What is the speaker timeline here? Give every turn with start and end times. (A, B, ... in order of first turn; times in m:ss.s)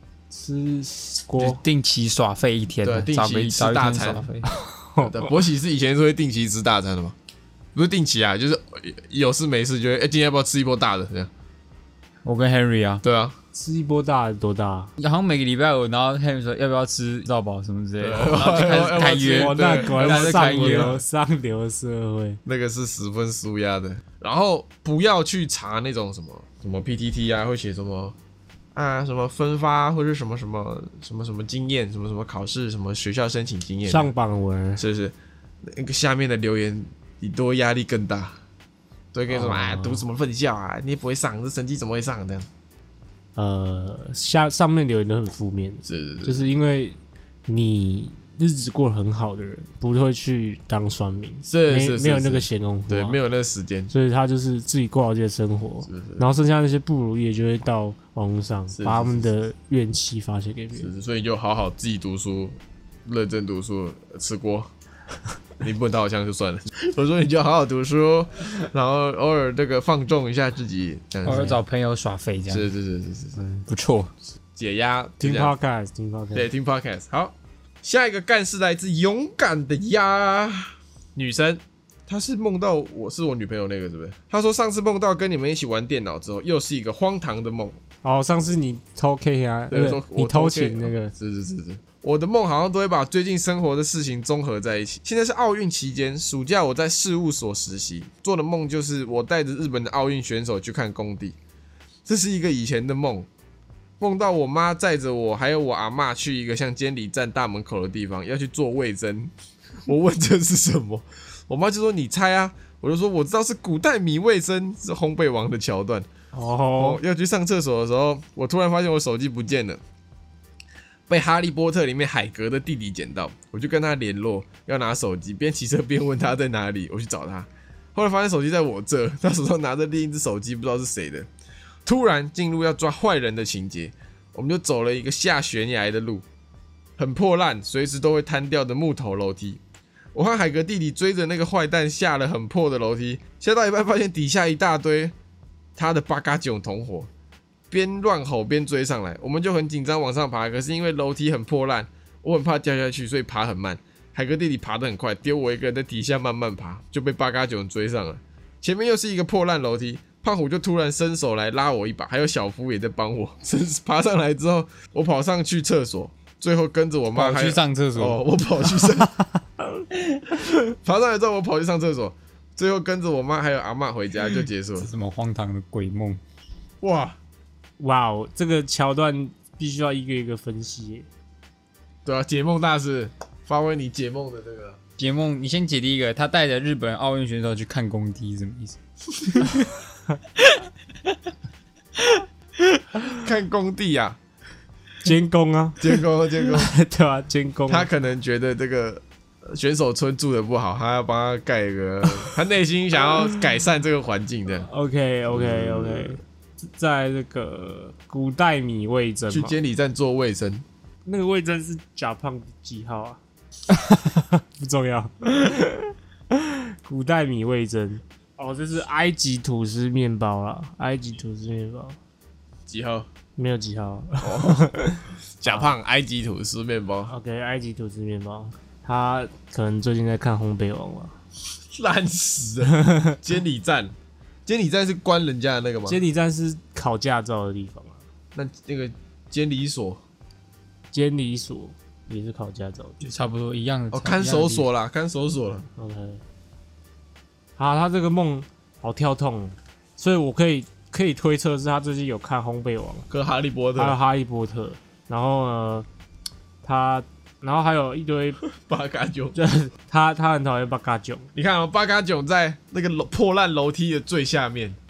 0:00.3-0:01.6 A
0:01.4-0:04.4 B
0:02.8-0:04.3 C
0:04.4-0:05.3 A
0:05.0-0:07.1 C
0:07.7-0:11.3 C
0:12.2-0:13.0 B
0:13.0-0:13.3 C
0:13.5-0:14.9 A
0:15.0-0:21.0 B
0:18.0-0:21.0 C
0:19.4-0:22.4 A
0:22.4-0:28.2 C
0:28.7-0:34.1 C
0:33.9-0:34.8 A
0:34.8-0:38.4 C
0:39.1-0:42.5 C
0:39.3-0:40.0 A
0:43.4-0:47.0 A
0:45.8-0:46.5 C
0:47.5-0:53.2 A
0:51.4-0:53.9 C
0:53.9-1:00.9 A
0:55.9-0:56.3 C
0:58.7-0:59.3 C
1:00.8-1:04.7 C
1:05.6-1:11.6 C
1:11.2-1:12.7 B
1:12.5-1:13.4 C
1:13.6-1:14.1 B
1:14.6-1:15.5 C
1:15.2-1:16.5 A
1:16.3-1:27.8 C
1:28.0-1:31.1 A
1:29.7-1:41.4 C
1:42.0-1:43.3 C
1:44.0-1:49.3 C
1:49.9-1:56.1 C
1:56.3-1:57.0 A
1:56.8-1:59.8 C
2:01.1-2:11.3 C
2:11.8-2:16.2 C
2:17.0-2:19.6 C
2:20.1-2:25.1 C
2:25.8-2:27.1 C
2:27.7-2:49.2 C
2:47.1-2:48.2 B
2:50.6-2:54.9 C
2:54.8-2:56.2 B
2:56.8-2:57.2 C
2:57.8-3:01.1 A
3:02.0-3:04.8 C
3:05.0-3:09.7 B
3:12.0-3:12.8 B
3:13.2-3:14.2 C
3:15.0-3:17.9 A
3:15.8-3:16.7 C
3:17.7-3:24.7 C
3:24.6-3:29.6 A
3:25.3-3:26.2 C
3:29.3-3:30.6 C
3:31.0-3:42.0 A
3:42.7-3:43.1 C
3:43.4-3:45.7 A
3:44.2-3:44.7 C
3:45.4-3:47.1 C
3:47.1-3:51.1 A
3:51.7-3:53.9 C
3:52.7-3:53.2 A
3:54.4-3:56.0 C
3:55.9-3:58.0 A
3:58.3-4:00.0 C
4:00.9-4:03.1 A
4:03.0-4:04.6 B
4:03.9-4:05.7 C
4:05.8-4:06.2 A
4:07.6-4:13.1 A
4:13.1-4:14.0 C
4:13.8-4:15.9 A
4:16.6-4:18.4 A
4:18.5-4:19.4 C
4:19.3-4:21.3 A
4:21.3-4:24.8 C